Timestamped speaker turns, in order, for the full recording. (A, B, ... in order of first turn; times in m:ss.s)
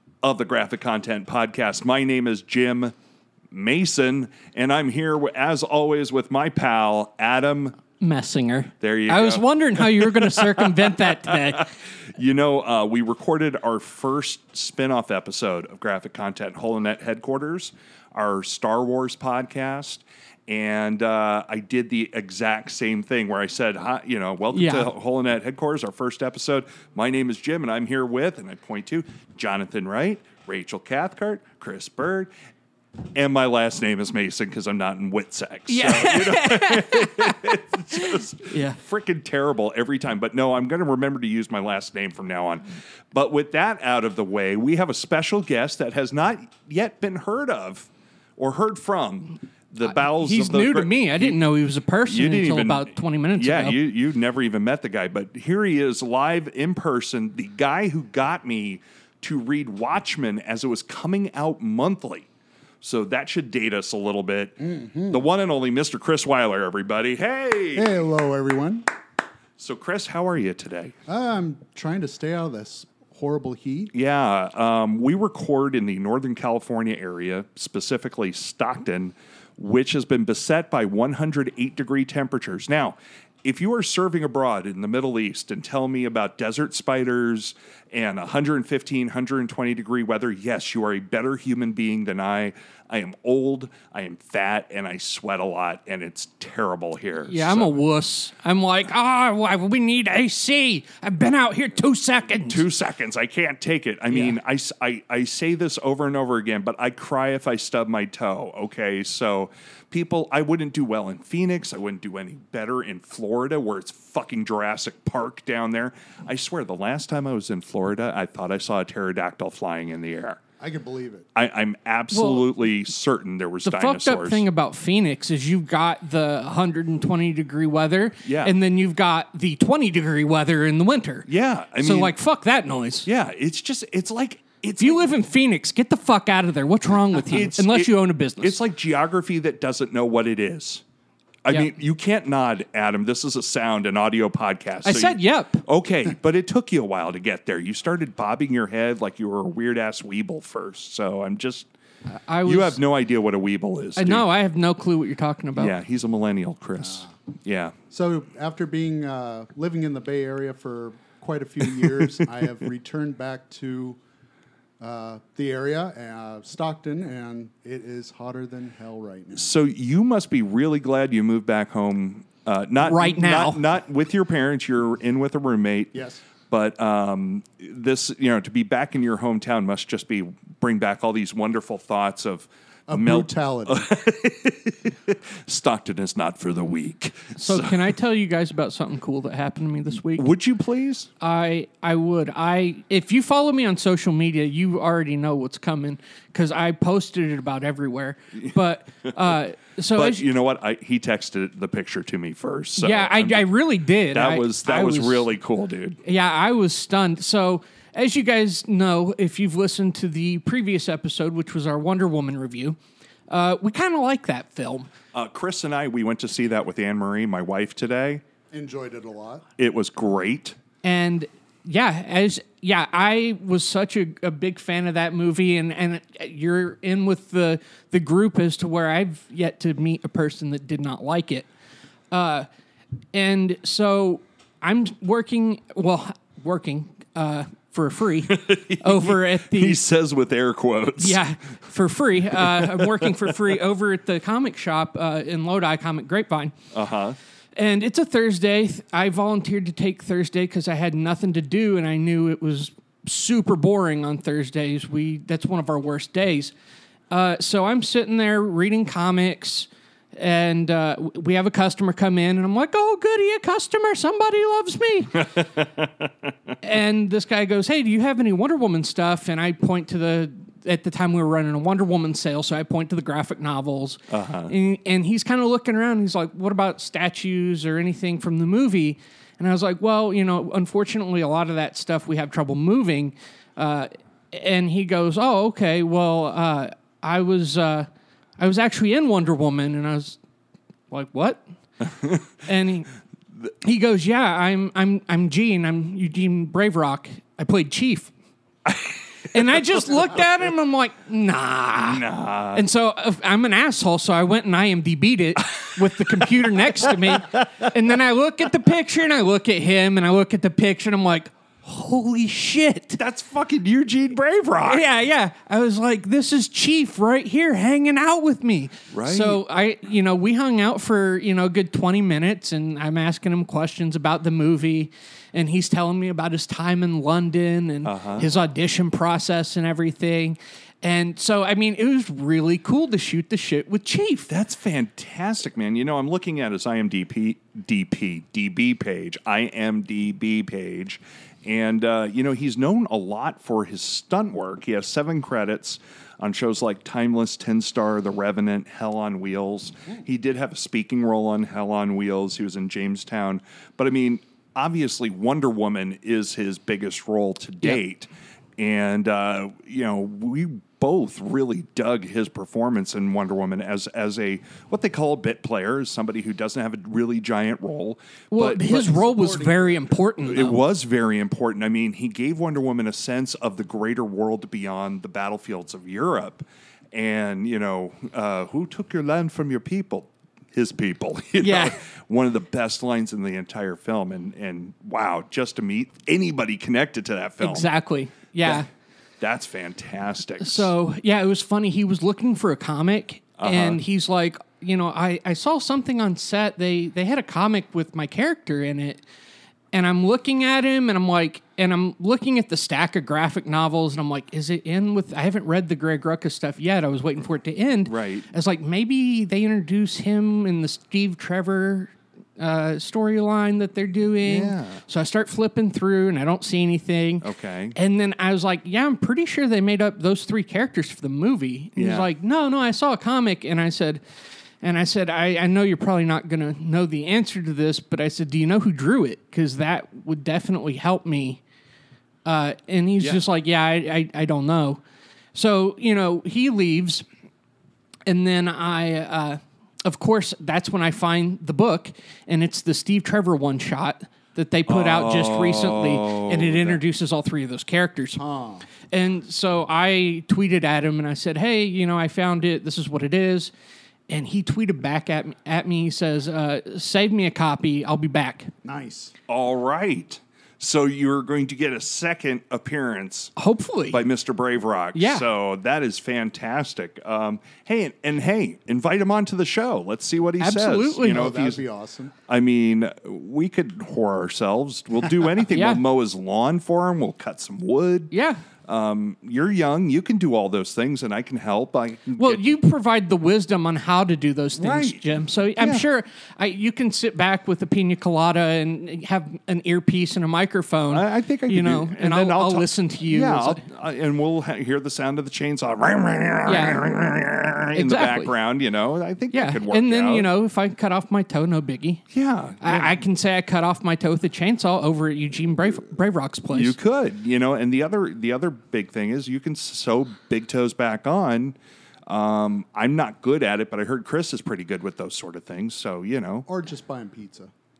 0:00.2-0:02.9 A
0:03.5-0:07.7 A
0:08.0-0:11.7 B
0:08.8-0:11.6 A
0:12.1-0:32.3 A
0:24.5-0:24.9 B
0:33.1-0:51.4 A
0:35.7-0:38.8 B
0:49.9-0:53.8 B
0:52.1-1:02.3 A
1:02.8-1:08.0 A
1:04.6-1:05.2 C
1:07.7-1:08.8 C
1:09.6-1:10.9 A
1:11.1-1:13.9 C
1:13.9-1:37.7 A
1:37.3-1:42.6 B
1:42.5-2:00.4 A
1:44.1-1:44.4 B
2:00.6-2:01.3 C
2:01.3-2:04.4 A
2:02.1-2:02.5 B
2:03.6-2:11.3 B
2:08.2-2:08.5 A
2:11.2-2:12.1 A
2:11.8-2:13.1 B
2:13.0-2:15.0 A
2:14.8-2:18.6 B
2:17.1-2:20.8 A
2:21.4-2:31.7 A
2:24.8-2:25.6 B
2:32.1-2:32.8 B
2:32.4-2:34.3 A
2:34.0-2:35.7 B
2:35.5-2:37.7 A
2:36.8-2:37.1 C
2:37.9-2:44.0 C
2:41.8-2:42.2 A
2:44.8-2:49.5 C
2:49.3-2:56.0 A
2:52.8-2:53.6 B
2:55.9-2:56.2 C
2:56.5-3:07.9 A
3:02.9-3:03.9 C
3:07.4-3:10.3 B
3:10.1-3:11.1 A
3:11.2-3:20.3 B
3:19.9-3:23.5 A
3:22.8-3:25.3 B
3:24.1-3:26.0 A
3:26.0-3:32.8 B
3:33.3-3:34.9 B
3:35.1-3:38.2 A
3:38.5-3:39.4 C
3:39.6-3:40.5 A
3:40.8-3:51.5 B
3:52.1-3:52.5 B
3:53.1-3:59.8 B
3:58.3-4:01.2 A
4:01.0-4:06.5 B
4:02.4-4:03.6 A
4:06.7-4:07.2 A
4:07.6-4:16.5 B
4:17.1-4:25.4 B
4:25.3-4:26.5 A
4:26.6-4:47.9 B
4:34.1-4:34.5 A
4:48.4-4:50.2 B
4:50.9-4:51.4 B
4:51.8-4:52.3 A
4:52.4-4:52.9 B
4:53.6-4:58.1 B
4:58.6-5:00.0 A
4:59.3-5:13.0 B
5:01.8-5:02.6 A
5:05.6-5:07.7 A
5:13.0-5:14.8 A
5:14.6-5:34.3 B
5:18.9-5:19.4 A
5:27.8-5:28.3 A
5:34.3-6:08.9 A
6:08.3-6:10.6 B
6:08.7-6:10.0 C
6:10.2-6:27.7 A
6:21.4-6:21.8 B
6:27.4-6:28.7 B
6:29.2-6:30.7 A
6:30.4-6:39.0 B
6:33.4-6:33.8 A
6:39.7-7:04.0 B
6:47.9-6:48.3 A
6:54.2-6:54.8 A
6:57.2-6:57.8 A
7:01.8-7:02.1 A
7:04.6-7:11.4 B
7:12.2-7:14.8 B
7:15.3-7:17.0 B
7:18.1-7:28.2 B
7:24.7-7:26.8 A
7:28.2-7:28.7 C
7:28.9-7:33.5 B
7:34.1-7:38.5 B
7:38.6-7:39.1 C
7:39.3-7:43.3 A
7:43.4-7:44.0 B
7:43.9-7:51.6 A
7:44.9-7:45.2 B
7:50.4-7:51.2 B
7:51.0-7:52.1 C
7:52.3-7:58.1 A
7:55.5-7:55.8 B
7:58.1-7:58.4 B
7:58.6-8:02.5 A
8:02.2-8:13.6 B
8:04.6-8:05.0 A
8:05.6-8:05.8 A
8:10.9-8:20.3 A
8:16.4-8:16.8 B
8:17.7-8:18.3 B
8:19.3-8:22.0 B
8:22.1-8:23.0 A
8:22.6-8:26.8 B
8:26.5-8:31.6 A
8:32.1-8:36.5 A
8:36.5-8:37.5 C